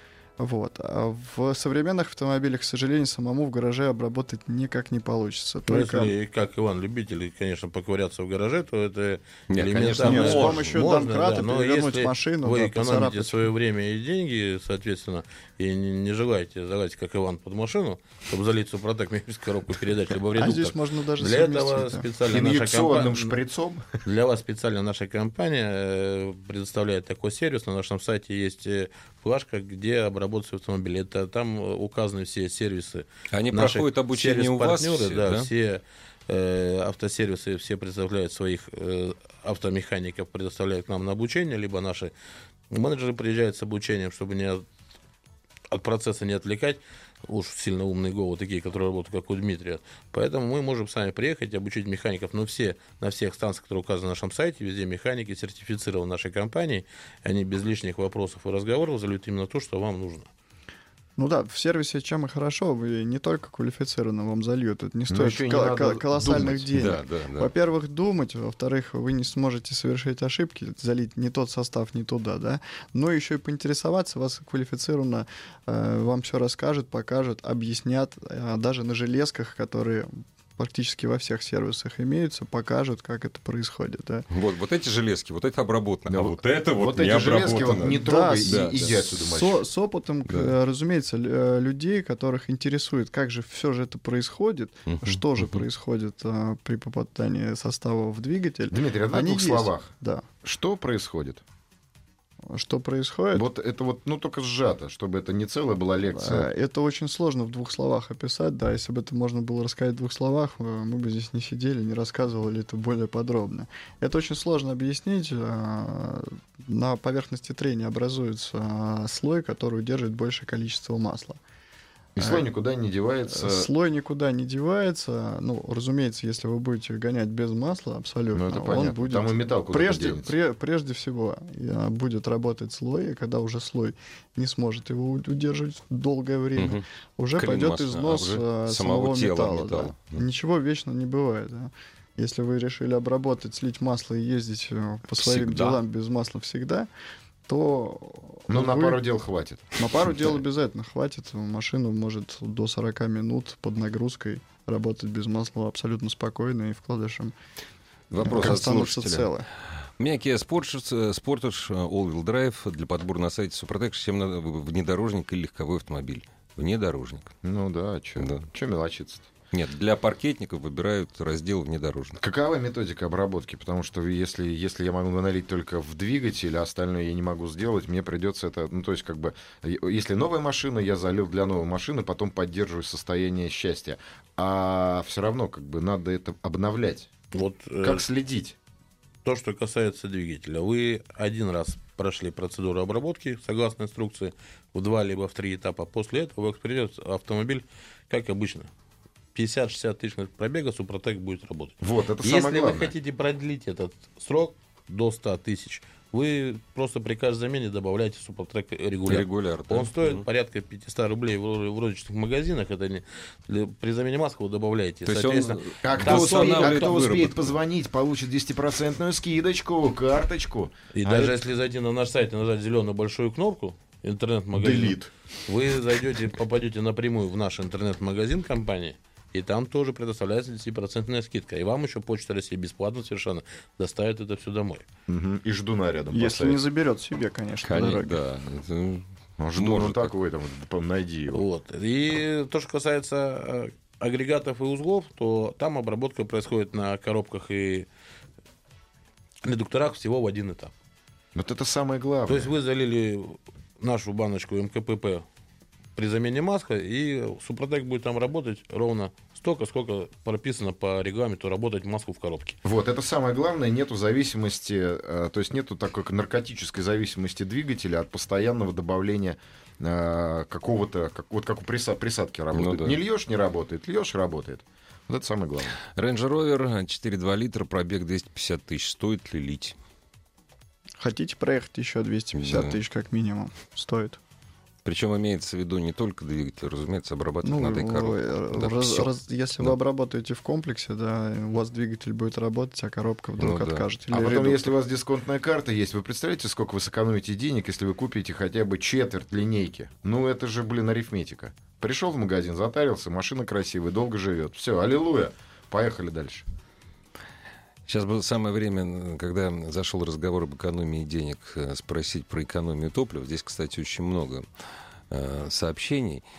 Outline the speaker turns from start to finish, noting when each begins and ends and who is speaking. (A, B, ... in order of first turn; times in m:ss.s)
0:00.4-0:06.1 A
0:05.7-0:23.4 B
0:09.5-0:10.8 C
0:10.0-0:13.5 A
0:20.4-0:22.1 A
0:22.2-0:24.0 D
0:24.0-0:42.1 B
0:33.3-0:35.5 C
0:42.7-0:44.7 B
0:45.7-1:00.3 B
1:01.2-1:24.3 A
1:05.1-1:06.7 D
1:06.7-1:07.5 C
1:24.3-1:29.3 C
1:26.1-1:29.6 D
1:28.0-1:40.3 A
1:30.3-1:30.5 C
1:34.9-1:35.6 C
1:38.7-1:39.9 D
1:40.4-1:41.4 D
1:42.5-1:43.5 A
1:43.3-1:46.5 D
1:46.1-2:01.4 A
2:02.2-2:03.7 D
2:02.2-2:02.4 A
2:03.3-2:26.9 A
2:08.3-2:10.4 D
2:16.6-2:16.8 C
2:17.4-2:20.2 C
2:25.2-2:25.8 C
2:27.5-2:29.0 A
2:28.5-2:29.9 D
2:29.8-2:37.3 A
2:38.1-2:39.3 C
2:38.2-2:39.5 A
2:40.0-2:47.3 C
2:47.4-2:49.3 D
2:48.2-2:48.4 C
2:49.5-2:52.2 C
2:52.2-3:07.1 D
3:07.3-3:08.0 B
3:07.8-3:08.6 D
3:09.2-3:18.7 B
3:19.4-3:37.2 B
3:21.8-3:22.9 D
3:29.1-3:30.3 C
3:35.1-3:37.6 C
3:35.8-3:41.4 D
3:41.0-3:54.8 B
3:44.6-3:45.1 D
3:55.1-3:56.6 D
3:56.1-3:58.2 A
3:57.6-4:00.1 C
3:59.4-4:01.4 D
4:01.3-4:07.9 B
4:09.4-4:10.7 B
4:11.4-4:12.5 D
4:12.3-4:15.2 B
4:16.0-4:22.6 B
4:22.6-4:35.8 D
4:32.5-4:33.0 C
4:35.9-4:39.8 C
4:41.0-4:44.2 A
4:42.4-4:42.8 C
4:44.8-4:49.7 C
4:47.4-4:54.7 A
4:53.4-4:53.9 C
4:54.1-5:06.4 D
5:07.9-5:14.5 C
5:15.1-5:16.2 C